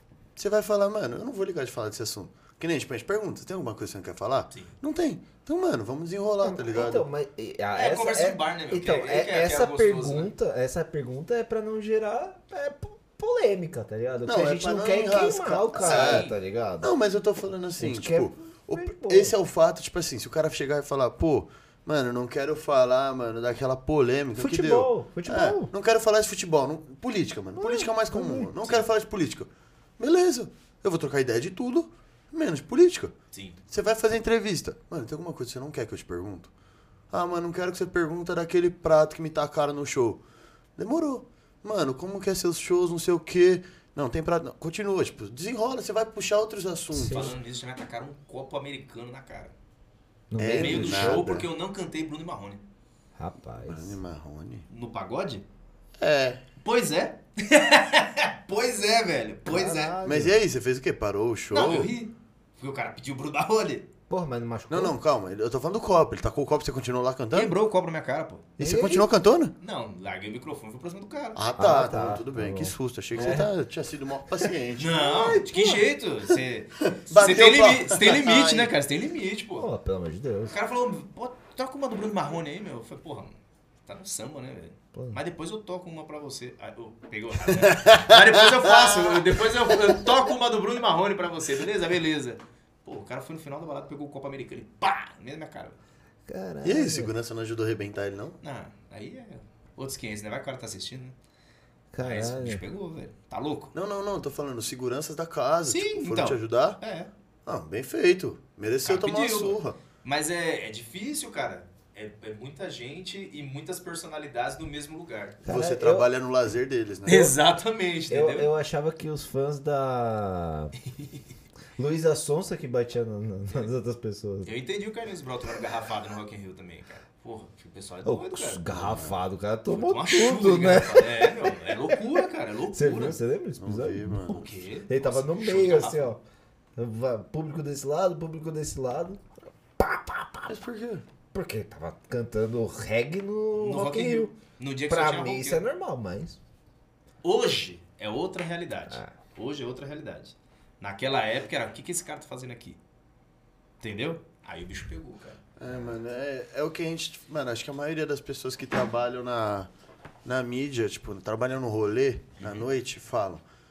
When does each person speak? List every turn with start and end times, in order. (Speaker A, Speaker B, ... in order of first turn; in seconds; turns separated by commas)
Speaker A: 0.4-7.1, Speaker B: 6.4-16.9, Speaker C: 7.8-10.3, Speaker A: 14.3-16.3, Speaker C: 15.8-16.4, Speaker A: 16.8-33.1, Speaker B: 17.8-19.3, Speaker B: 24.4-25.7, Speaker B: 27.6-28.5, Speaker C: 33.3-33.6, Speaker A: 33.7-36.5, Speaker A: 37.1-40.2, Speaker A: 40.8-47.4, Speaker B: 46.9-47.4, Speaker C: 47.0-49.5, Speaker B: 50.3-51.3, Speaker A: 50.4-51.5, Speaker C: 50.5-52.6, Speaker B: 53.1-54.0, Speaker A: 53.7-54.6, Speaker C: 54.7-55.5, Speaker A: 56.0-56.4, Speaker C: 56.6-60.0, Speaker B: 59.5-60.4, Speaker A: 60.0-61.9, Speaker C: 61.5-63.9, Speaker B: 64.1-65.0, Speaker A: 64.7-67.6, Speaker C: 67.3-68.5, Speaker B: 68.6-69.1, Speaker A: 68.6-69.5, Speaker C: 69.6-71.4, Speaker A: 71.3-75.1, Speaker B: 71.6-73.5, Speaker C: 74.8-79.7, Speaker B: 75.0-75.8, Speaker A: 76.9-78.7, Speaker B: 79.6-80.5, Speaker C: 80.5-95.8, Speaker B: 84.9-85.2, Speaker A: 87.6-89.1, Speaker B: 96.3-97.1, Speaker A: 96.6-98.4, Speaker C: 98.4-101.2, Speaker B: 101.9-102.6, Speaker C: 102.0-103.7, Speaker A: 103.7-106.8, Speaker C: 105.6-107.1, Speaker A: 107.5-109.8, Speaker C: 108.8-115.4, Speaker B: 115.4-116.1, Speaker A: 115.5-117.4, Speaker C: 117.1-118.5, Speaker B: 118.1-120.7, Speaker C: 120.9-121.2, Speaker B: 121.8-124.5, Speaker C: 124.5-128.6, Speaker B: 128.0-132.0, Speaker A: 128.7-129.2, Speaker C: 129.7-133.2, Speaker B: 132.7-134.4, Speaker A: 133.6-134.5, Speaker C: 134.3-136.1, Speaker B: 134.9-136.2, Speaker B: 136.8-139.2, Speaker B: 139.8-140.6, Speaker A: 140.5-141.1, Speaker B: 141.3-144.3, Speaker C: 143.5-145.6, Speaker B: 144.9-146.4, Speaker C: 147.2-152.8, Speaker C: 153.8-155.4, Speaker A: 155.6-159.7, Speaker A: 160.2-163.4, Speaker C: 162.4-162.6